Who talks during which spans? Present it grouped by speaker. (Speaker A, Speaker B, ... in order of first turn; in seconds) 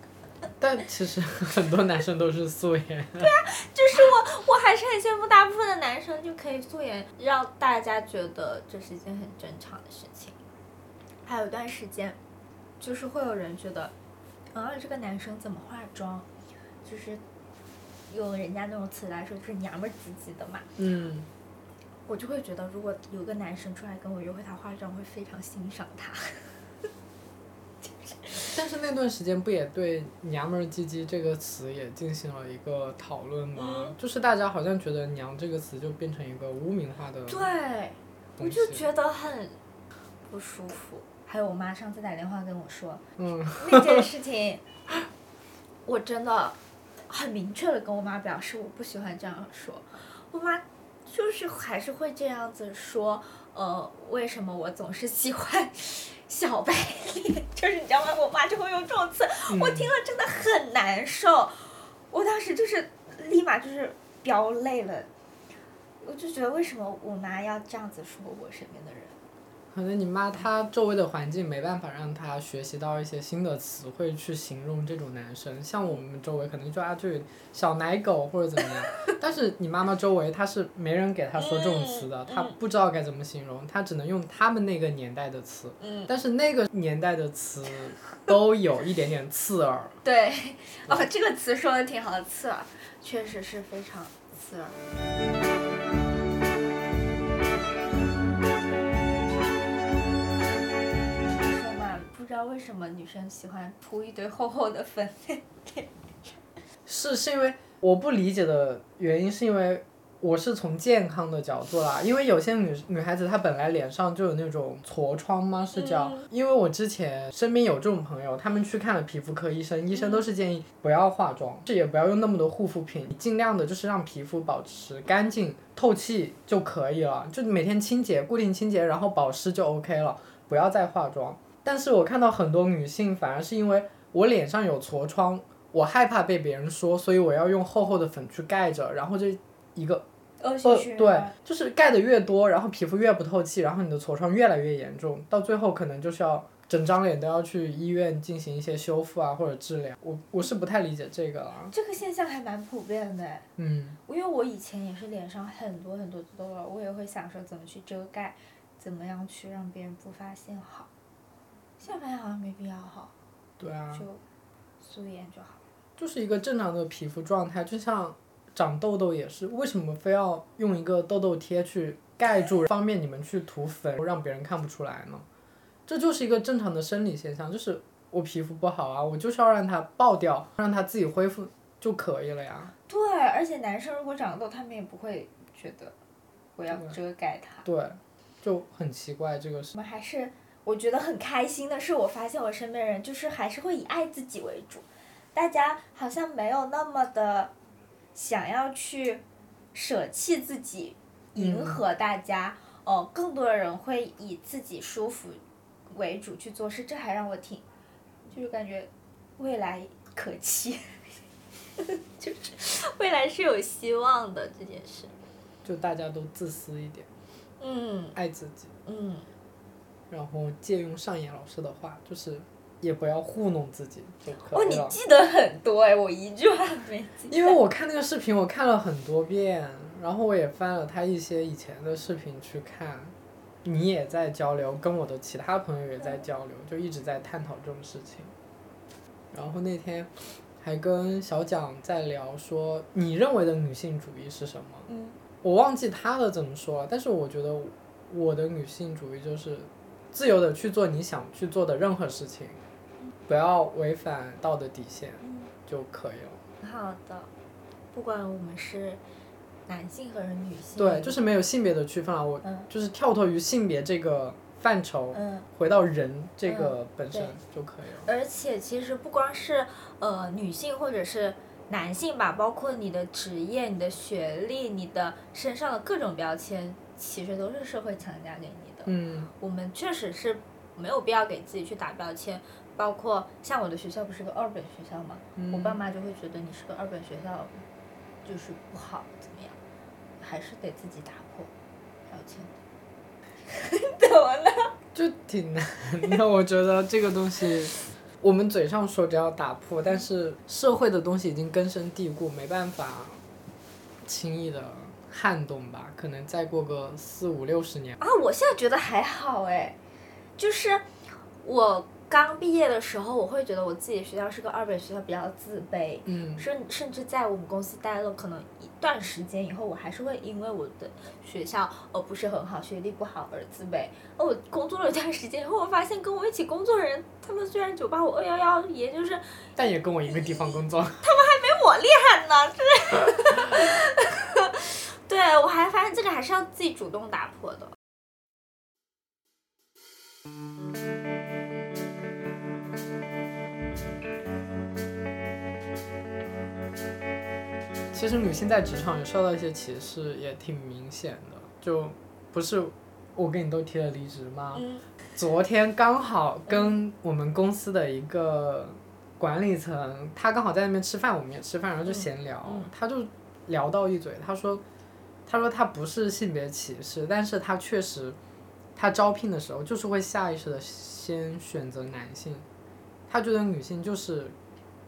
Speaker A: 0.6-3.3, 20.8-21.3, 28.5-37.5, 38.4-38.8, 43.2-44.0, 59.5-59.9, 69.7-90.0, 106.8-140.0, 140.6-151.7, 153.6-154.0, 163.6-164.1, 166.0-175.2, 175.9-182.7, 186.7-186.9, 187.6-189.7, 201.3-201.8, 215.6-217.1, 218.1-218.7, 220.1-224.9, 227.3-238.3, 239.3-244.9, 245.4-252.6, 253.3-256.4, 260.8-268.1, 278.9-279.3, 285.4-285.8, 294.9-303.2, 304.0-308.0, 316.1-316.4, 329.6-331.1, 347.9-354.6, 355.1-364.6, 365.3-368.2, 368.7-372.4, 373.1-374.3
Speaker B: 3.2-10.4, 11.2-12.2, 12.8-13.9, 14.5-16.3, 16.8-17.2, 18.1-20.7, 22.1-26.5, 27.8-28.5, 33.5-33.9, 37.3-39.6, 40.3-44.6, 45.9-46.6, 47.1-65.1, 66.0-69.2, 81.4-82.6, 85.8-86.1, 90.0-94.8, 101.4-106.4, 115.8-116.2, 120.0-120.2, 140.4-141.3, 151.7-153.5, 154.1-160.9, 161.8-163.1, 163.9-164.2, 164.8-165.6, 182.9-185.9, 186.6-187.7, 189.7-197.5, 198.1-199.2, 199.7-207.6, 208.3-211.1, 211.8-215.1, 217.6-218.1, 218.8-219.3, 224.5-227.6, 244.9-245.2, 255.2-255.5, 256.6-257.3, 257.9-259.0, 259.7-261.2, 262.4-262.7, 265.1-265.5, 266.4-267.3, 268.0-287.6, 288.2-289.6, 290.2-291.5, 292.1-292.5, 293.4-294.7, 308.0-309.8, 310.4-310.9, 311.4-329.5, 331.0-337.7, 354.5-354.8, 356.5-356.8, 361.9-362.7